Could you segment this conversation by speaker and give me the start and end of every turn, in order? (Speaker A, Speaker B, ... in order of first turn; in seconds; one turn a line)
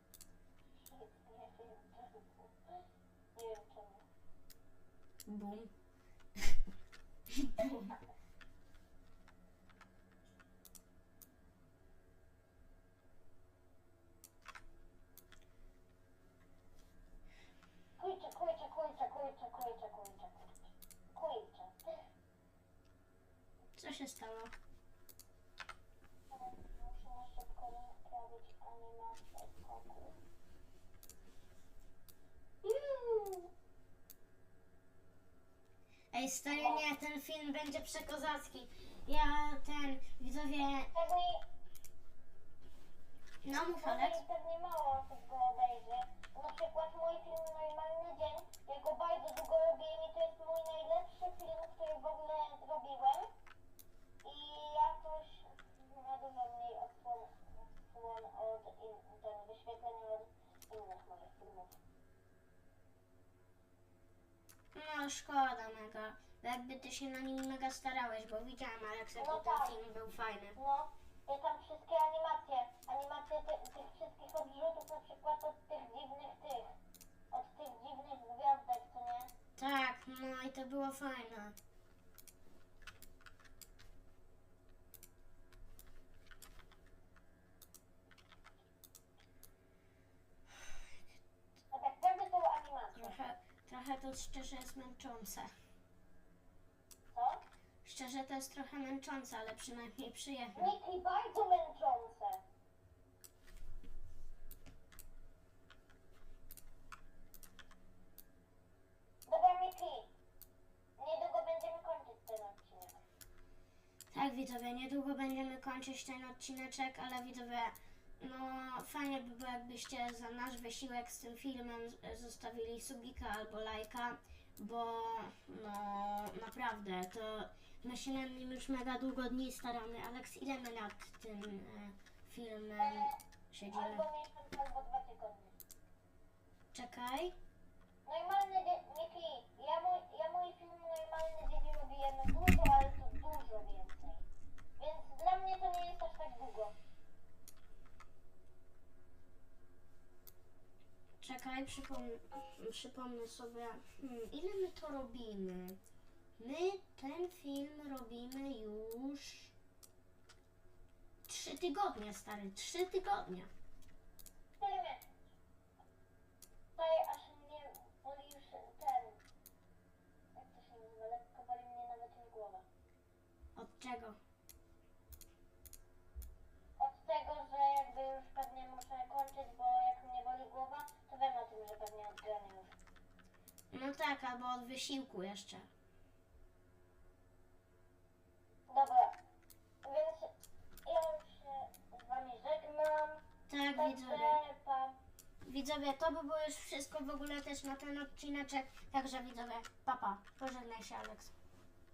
Speaker A: 0.8-2.8
Speaker A: 3.4-4.0
Speaker B: 5.2-5.7
Speaker B: 7.3-7.9
Speaker A: 7.6-7.9
Speaker A: 18.0-21.9
Speaker B: 23.8-24.5
Speaker A: 26.3-30.2
Speaker A: 32.6-33.5
Speaker B: 36.1-40.9
Speaker A: 36.5-36.9
Speaker A: 40.9-41.4
Speaker B: 43.4-44.2
Speaker A: 43.5-53.3
Speaker A: 54.2-61.8
Speaker B: 64.7-70.6
Speaker A: 69.2-69.8
Speaker A: 70.5-76.7
Speaker A: 77.3-79.3
Speaker B: 79.6-81.5
Speaker A: 91.7-93.2
Speaker B: 92.9-95.5
Speaker A: 97.1-97.4
Speaker B: 97.8-100.7
Speaker A: 100.5-102.4
Speaker A: 109.3-110.1
Speaker A: 111.0-113.0
Speaker B: 114.1-134.0
Speaker A: 132.8-135.6
Speaker B: 136.7-137.3
Speaker A: 138.1-144.2
Speaker A: 144.8-146.7
Speaker B: 151.2-155.8
Speaker B: 156.4-159.5
Speaker B: 161.3-163.5
Speaker A: 164.6-165.0
Speaker A: 166.8-169.2
Speaker A: 170.3-172.6
Speaker B: 173.6-174.2
Speaker A: 176.8-182.7
Speaker B: 183.7-185.7
Speaker A: 188.7-189.1
Speaker A: 189.8-190.3
Speaker A: 190.8-195.0
Speaker B: 193.5-194.4
Speaker B: 195.4-201.3